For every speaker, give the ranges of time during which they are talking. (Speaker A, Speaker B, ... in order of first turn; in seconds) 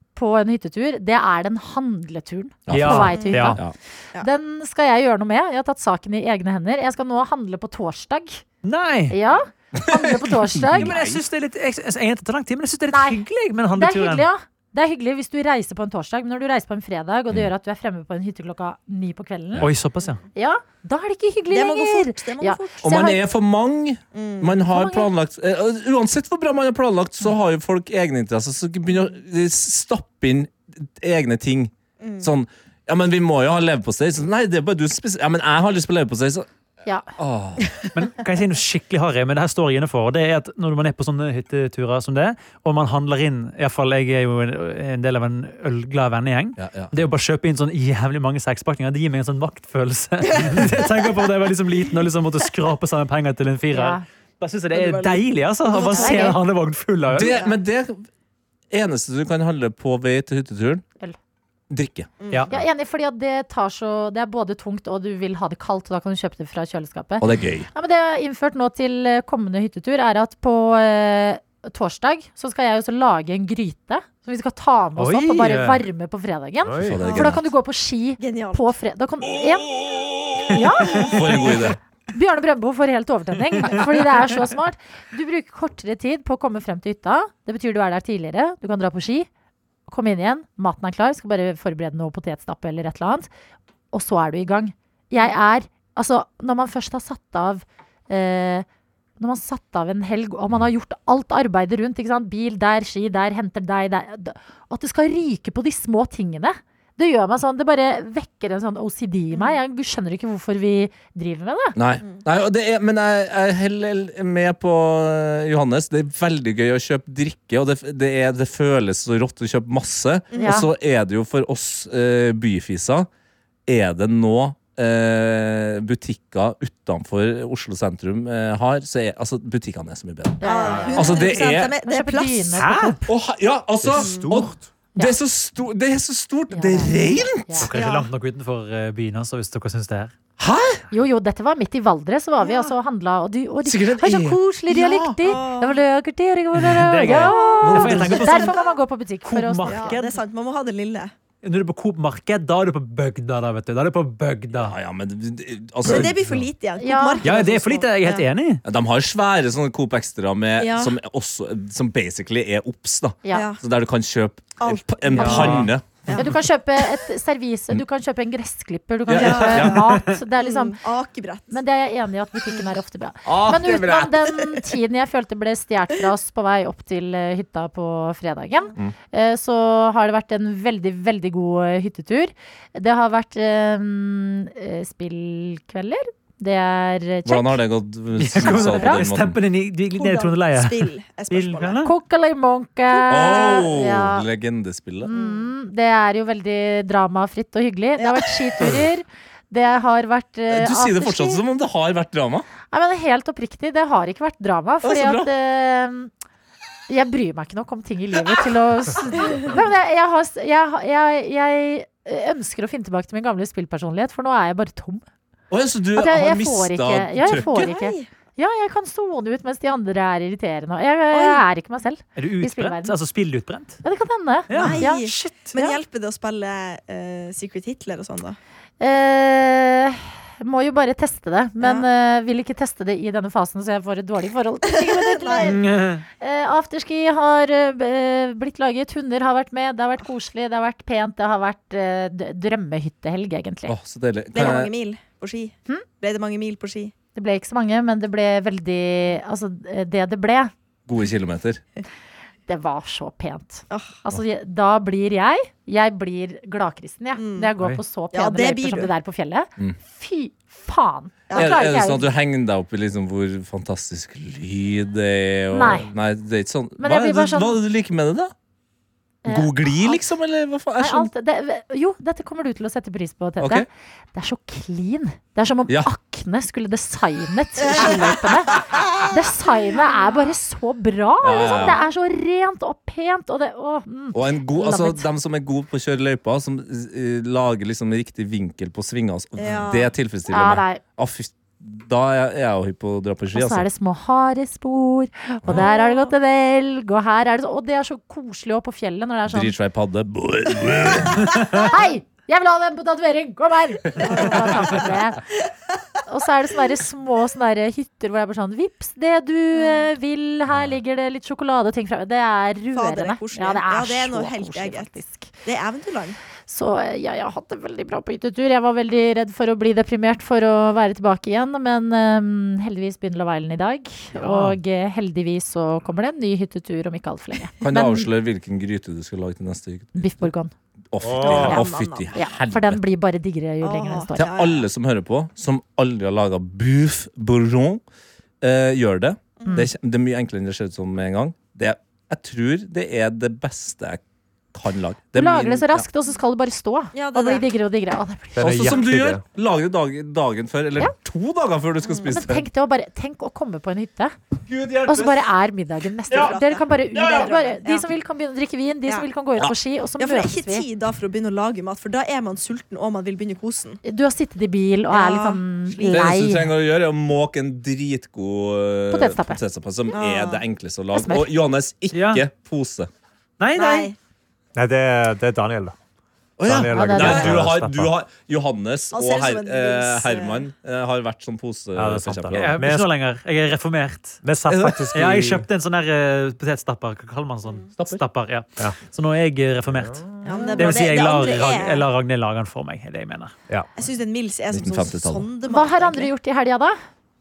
Speaker A: 0.1-8.4, 9.1-10.9, 12.9-13.2, 13.7-19.7, 20.3-23.2, 24.7-25.1, 53.7-54.0, 55.8-56.4, 62.5-79.7, 80.5-81.2, 82.1-89.3, 89.9-93.3, 93.9-98.7, 99.2-111.8, 120.3-120.7, 130.4-133.1, 136.5-137.7, 140.9-149.9, 156.8-157.2, 165.2-165.6, 166.2-170.8, 171.5-187.6, 188.4-189.0, 191.8-194.2, 195.0-201.4, 202.7-206.1, 206.9-215.0, 215.9-223.0, 223.8-225.7, 228.8-235.6, 236.2-243.7, 247.1-250.5, 252.5-262.1, 265.5-265.9, 266.8-267.6, 269.2-270.0, 270.8-285.1, 290.3-290.8, 293.3-299.5, 301.5-305.2, 306.1-315.3, 316.5-328.1, 329.9-330.5, 331.4-334.2, 345.1-348.7, 352.1-354.1, 354.9-360.6, 363.8-366.5, 368.9-369.4, 370.9-371.3, 376.7-377.3, 395.5-396.8
Speaker B: 2.7-3.7, 9.8-10.2, 10.7-11.2, 22.8-36.5, 37.2-37.8, 46.6-46.9, 57.1-58.1, 58.7-60.8, 61.7-62.1, 67.2-67.7, 76.8-77.4, 81.0-81.8, 111.8-123.1, 123.7-130.4, 130.9-131.7, 133.1-137.7, 140.4-140.8, 143.6-145.2, 154.6-156.2, 158.6-166.2, 169.1-169.8, 173.2-174.1, 187.2-189.4, 193.1-195.1, 200.5-202.5, 204.8-205.3, 215.5-217.5, 243.7-244.7, 250.8-251.6, 261.3-268.3, 269.2-271.1, 273.4-273.7, 281.2-281.8, 284.1-293.6, 299.3-301.4, 327.6-330.1, 330.9-332.8, 334.1-337.8, 338.4-344.0, 344.5-345.8, 348.4-352.4, 354.5-355.2, 356.9-357.2, 365.9-372.9, 376.4-382.6, 384.5-384.8, 387.8-388.0, 394.5-395.2
Speaker C: 2.7-3.6, 8.6-9.2, 10.5-14.3, 19.6-20.2, 37.9-57.4, 75.0-75.8, 80.5-81.1, 132.6-133.0, 137.6-140.1, 146.6-148.6, 149.2-150.2, 151.4-154.8, 157.2-158.6, 165.2-165.7, 169.4-170.2, 188.2-191.9, 222.2-223.8, 224.5-225.5, 235.4-236.0, 324.1-324.6, 371.9-372.2, 373.4-373.9, 382.4-384.2, 384.9-393.3
Speaker D: 3.1-3.5, 21.5-22.9, 24.1-24.5, 32.0-32.3, 50.3-51.2, 54.7-56.4, 57.3-57.6, 62.2-62.5, 78.2-78.7, 109.3-109.6, 120.3-120.6, 130.4-132.7, 133.9-134.4, 137.7-138.1, 142.4-142.7, 145.2-145.8, 147.1-148.6, 149.7-151.1, 155.8-158.2, 160.6-160.9, 163.3-163.6, 164.6-166.3, 169.1-169.8, 170.4-171.6, 174.3-174.6, 189.9-191.8, 192.9-193.7, 195.1-195.5, 198.0-198.8, 209.2-209.5, 217.3-218.1, 221.1-221.4, 224.5-228.4, 231.6-231.8, 234.7-235.6, 244.3-246.9, 253.7-254.0, 257.1-257.5, 258.1-258.9, 261.3-261.7, 277.6-279.2, 289.4-289.9, 295.5-296.1, 300.9-301.2, 304.0-304.9, 309.5-309.9, 312.7-314.9, 315.4-316.2, 331.2-332.1, 333.6-334.6, 346.9-347.5, 351.8-352.2, 356.1-357.9, 360.0-363.8, 364.9-366.0, 369.9-370.4, 373.5-373.9, 378.9-380.4, 390.2-391.9, 393.8-396.1
Speaker E: 76.6-77.1, 133.8-134.7, 155.9-156.4, 331.0-331.6, 348.3-349.2, 374.5-375.8, 376.4-377.9, 381.7-382.9, 384.2-385.5, 389.7-390.5